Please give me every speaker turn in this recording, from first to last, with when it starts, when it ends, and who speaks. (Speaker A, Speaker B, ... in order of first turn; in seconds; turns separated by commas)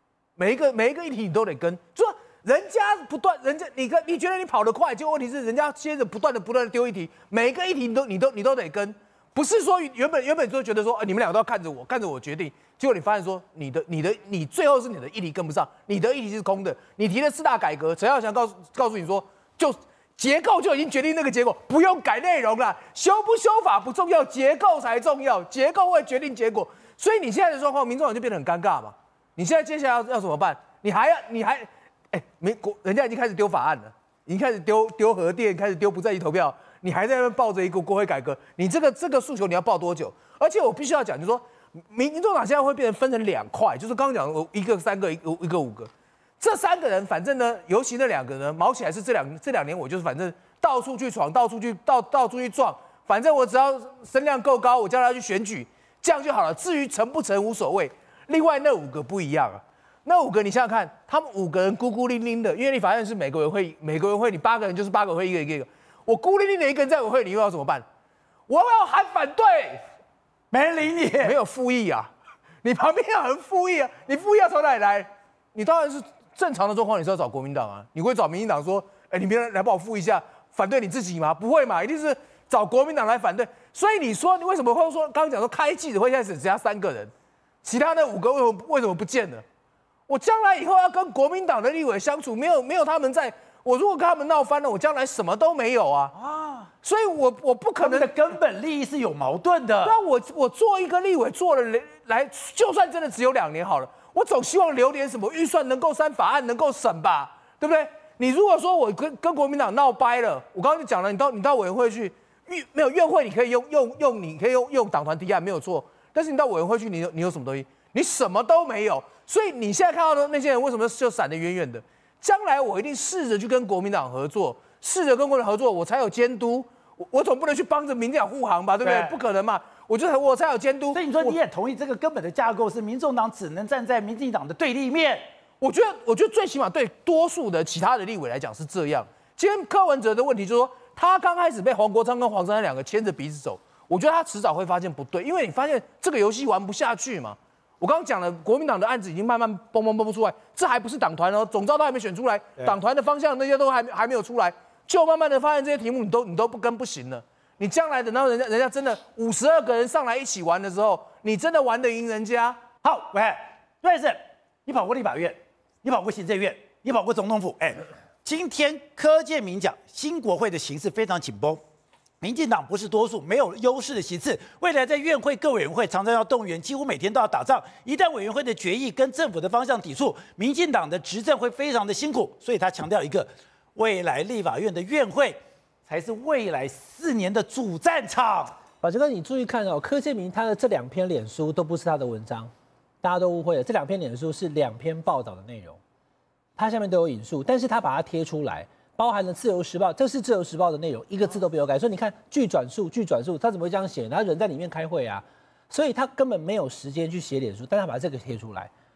Speaker A: 0.4-67.8, Speaker A: 68.5-69.8, Speaker B: 70.5-71.3, Speaker A: 71.2-72.1, Speaker A: 72.6-87.1, Speaker A: 87.6-89.4, Speaker A: 90.1-96.1, Speaker B: 96.1-96.7, Speaker A: 96.8-98.1, Speaker B: 97.8-100.0, Speaker A: 99.8-131.4, Speaker B: 128.8-129.2, Speaker B: 130.9-135.2, Speaker A: 135.6-162.6, Speaker B: 162.8-171.6, Speaker B: 172.2-188.6, Speaker C: 188.8-192.5, Speaker C: 193.0-195.8, Speaker C: 196.6-208.7